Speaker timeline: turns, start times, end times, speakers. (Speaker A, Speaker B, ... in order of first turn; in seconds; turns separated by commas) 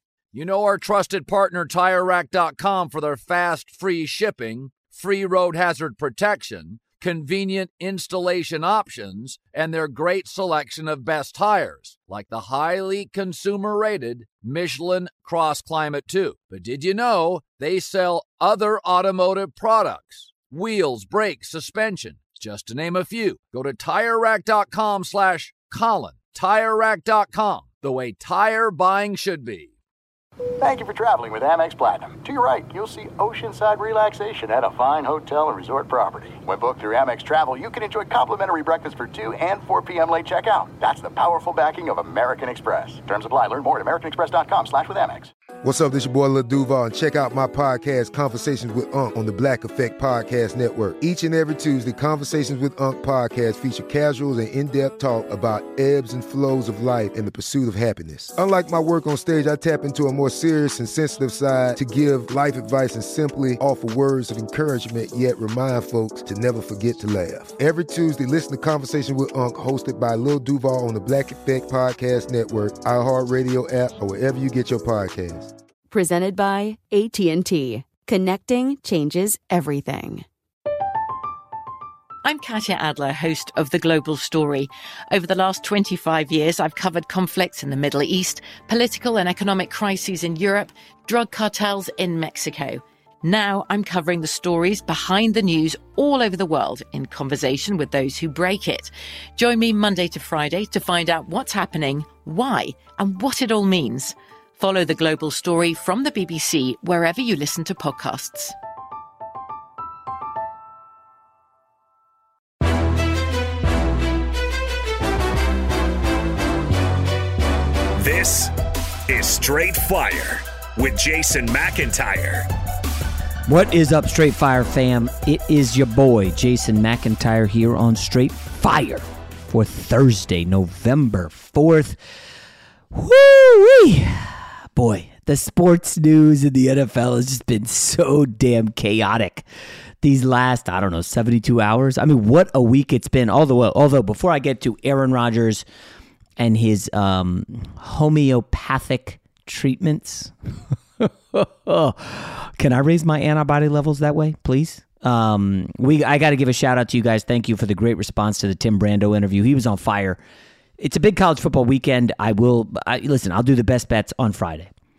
Speaker A: 0.3-29.7, Speaker B: 30.6-45.3, Speaker C: 45.6-75.5, Speaker D: 75.9-80.2, Speaker E: 82.2-108.5, Speaker F: 118.0-118.5, Speaker F: 119.1-122.5, Speaker G: 123.5-132.0, Speaker G: 132.9-139.4, Speaker G: 140.0-145.6, Speaker G: 146.4-150.3, Speaker G: 151.0-160.2, Speaker G: 160.8-164.7